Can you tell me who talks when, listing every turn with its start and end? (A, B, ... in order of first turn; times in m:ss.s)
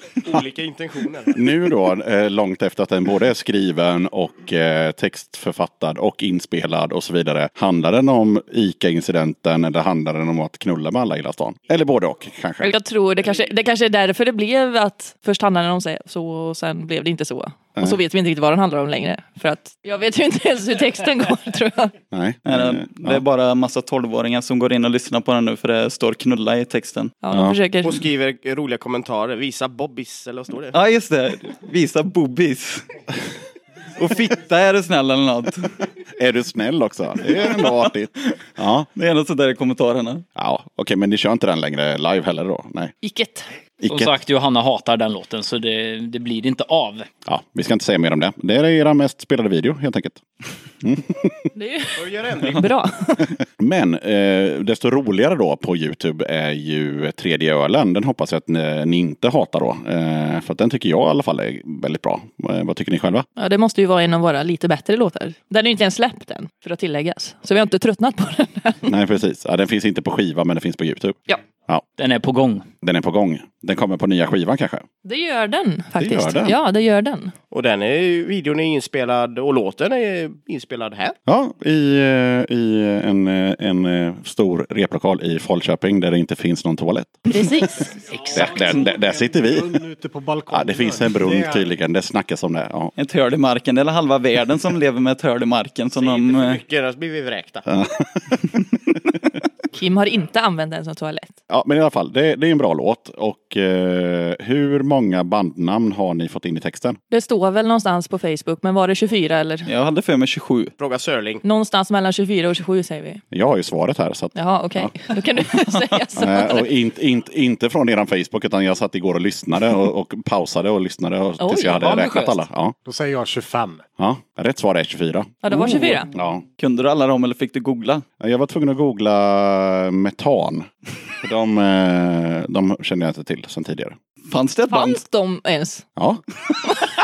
0:00.2-0:01.5 A
0:01.3-0:12.7 B
0:12.6-0:21.9 C
0:22.1-0:23.2 B
0:22.5-0:27.2 D
0:27.2-0:28.0 C
0:27.3-0:27.6 B
0:27.8-0:30.8 A
0:30.7-0:32.9 D
0:34.0-0:35.7 D
0:36.2-0:38.9 B
0:37.3-0:38.3 D
0:39.0-0:40.2 D
0:40.4-0:42.9 B
0:43.0-0:43.5 C
0:43.8-0:44.1 B
0:43.9-0:47.1 E
0:47.3-0:50.2 B
0:50.8-0:51.5 B
0:51.6-0:53.3 C
0:52.0-0:52.7 A
0:53.6-1:03.3 B
1:03.4-1:08.9 C
1:08.9-1:11.8 B
1:12.0-1:12.6 E
1:12.8-1:14.9 B
1:15.0-1:17.3 C
1:16.0-1:16.6 B
1:17.5-1:21.2 A
1:21.3-1:27.3 B
1:27.3-1:28.0 C
1:27.9-1:31.7 F
1:28.3-1:29.8 B
1:30.5-1:32.9 B
1:33.0-1:36.6 D
1:36.0-1:37.7 A
1:37.7-1:38.6 B
1:39.8-1:41.4 C
1:41.5-1:47.0 B
1:47.1-1:49.7 C
1:49.7-1:50.7 D
1:50.8-1:51.4 A
1:51.4-1:53.2 C
1:53.3-1:55.0 B
1:54.4-1:56.7 C
1:55.7-1:55.9 D
1:56.2-2:02.8 B
2:01.4-2:01.9 C
2:01.8-2:02.4 E
2:02.8-2:03.8 F
2:04.0-2:06.4 B
2:05.4-2:06.1 C
2:06.6-2:08.0 D
2:08.2-2:10.7 B
2:11.2-2:14.0 B
2:14.3-2:15.0 D
2:14.7-2:15.8 C